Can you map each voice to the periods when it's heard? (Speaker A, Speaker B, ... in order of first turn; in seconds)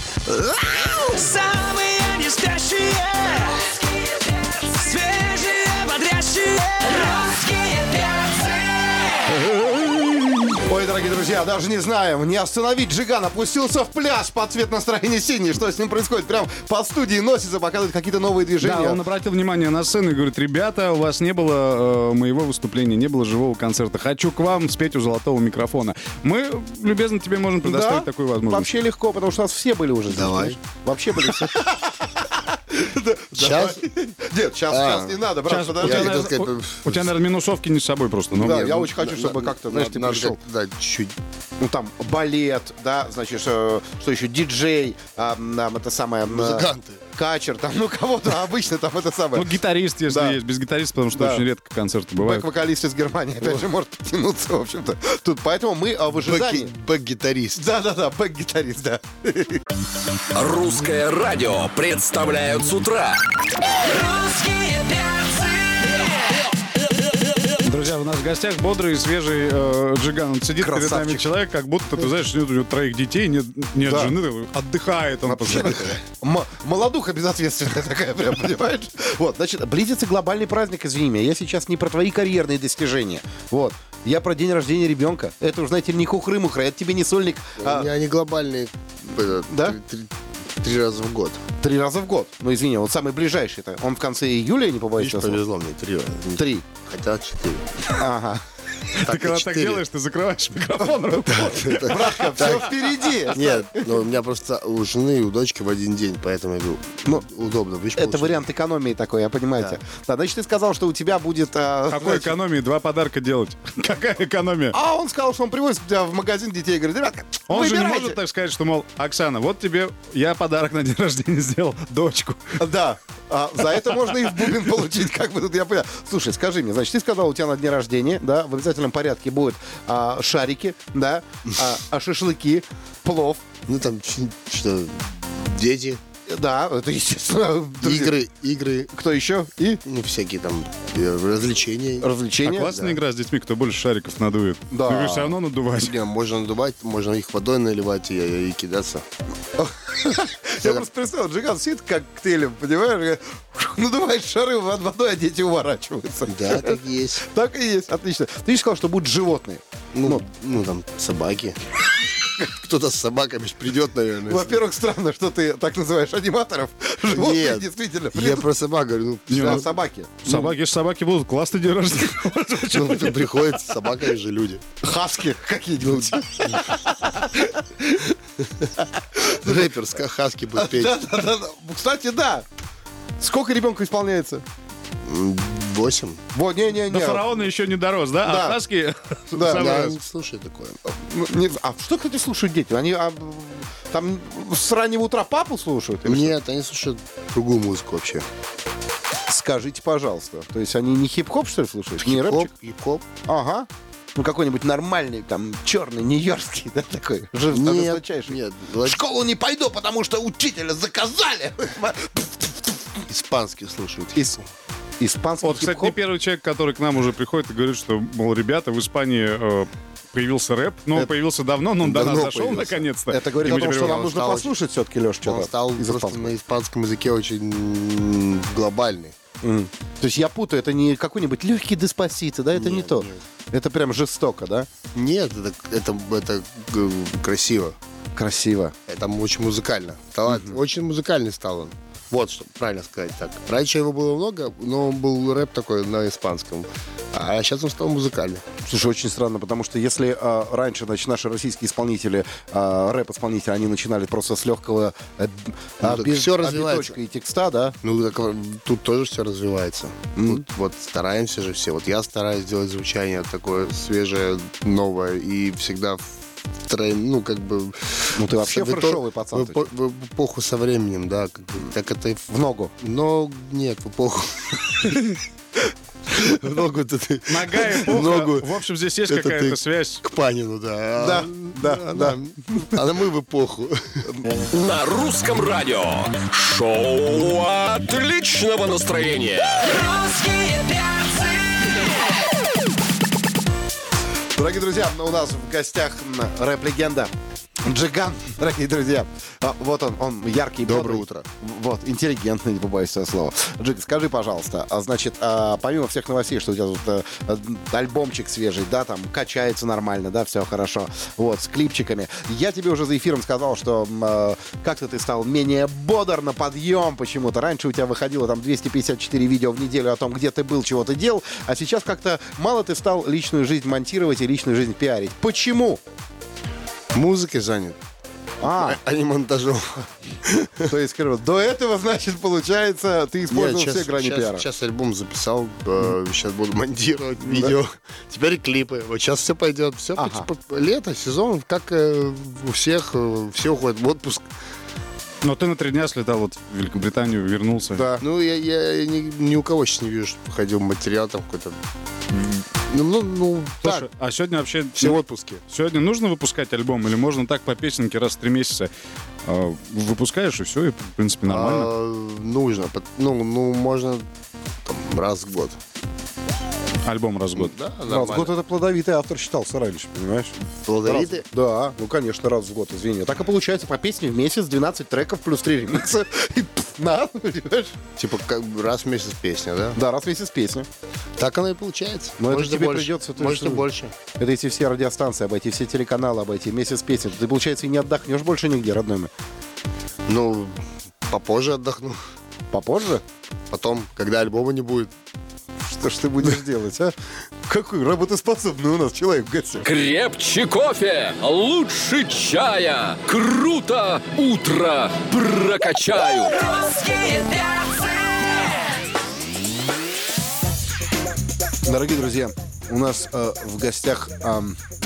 Speaker A: 0.5-9.3, 63.8-66.0, 289.7-291.8, 406.4-408.6
Speaker B: 10.6-19.0, 27.6-36.4, 38.4-40.4, 41.6-49.5, 50.1-50.4, 51.1-51.4, 52.2-56.7, 57.5-59.6, 70.6-71.2, 73.8-74.2, 75.2-87.9, 89.5-89.8, 91.6-95.4, 96.4-96.6, 97.9-98.4, 101.7-104.0, 108.0-112.4, 114.7-118.2, 122.6-133.4, 136.3-138.1, 138.9-139.8, 142.0-142.7, 144.7-145.4, 149.6-160.2, 164.3-168.5, 169.3-170.5, 174.8-177.8, 179.2-179.6, 180.6-182.4, 183.2-184.4, 186.3-187.3, 188.2-188.6, 189.3-189.8, 191.1-196.4, 199.3-202.5, 203.2-212.8, 214.1-214.4, 215.0-215.9, 223.1-226.3, 229.4-234.7, 238.1-238.7, 240.3-240.6, 248.6-257.8, 260.1-260.4, 268.1-269.7, 272.3-272.7, 281.0-282.2, 294.4-297.1, 297.6-325.8, 328.4-328.8, 330.7-334.4, 337.2-337.6, 340.0-340.3, 347.7-348.0, 367.9-377.8, 379.7-380.7, 382.2-383.6, 384.2-389.1, 392.5-393.0, 395.6-396.9, 397.5-399.6, 411.6-414.6
Speaker C: 18.6-28.7, 35.5-38.8, 49.3-52.5, 67.6-75.9, 99.0-102.6, 111.9-114.8, 117.5-122.6, 142.4-145.9, 169.3-169.6, 170.2-173.1, 186.9-190.0, 215.4-224.1, 277.3-280.0, 345.2-347.9, 353.6-358.7, 359.2-361.7, 366.8-367.5
Speaker D: 30.1-30.6, 33.3-33.8, 34.7-35.1, 35.8-37.0, 38.4-41.2, 46.3-47.0, 56.2-57.6, 87.6-91.4, 95.0-97.7, 99.0-99.8, 101.2-102.7, 103.3-108.4, 133.7-136.0, 137.8-138.9, 139.8-143.0, 145.8-149.0, 150.6-150.8, 156.3-157.2, 159.9-161.6, 162.4-164.6, 167.1-169.7, 172.7-174.6, 176.0-176.6, 178.4-178.7, 179.2-181.0, 185.0-186.2, 189.4-190.9, 196.1-198.2, 202.0-203.0, 207.5-209.0, 213.1-214.4, 221.9-222.7, 223.8-224.5, 225.2-229.2, 232.5-233.2, 234.9-237.8, 238.9-248.4, 255.8-256.9, 257.8-266.1, 266.6-272.3, 272.8-275.2, 276.1-278.5, 279.1-284.0, 300.6-301.2, 326.9-327.8, 328.4-330.7, 333.3-344.2, 348.0-351.6, 352.1-353.9, 354.8-355.4, 361.2-364.1, 364.6-365.6, 367.3-368.3, 370.6-371.2, 378.0-379.8, 381.2-383.9, 390.1-392.0, 393.5-394.9
Speaker E: 60.3-63.2, 284.5-289.7, 399.6-406.4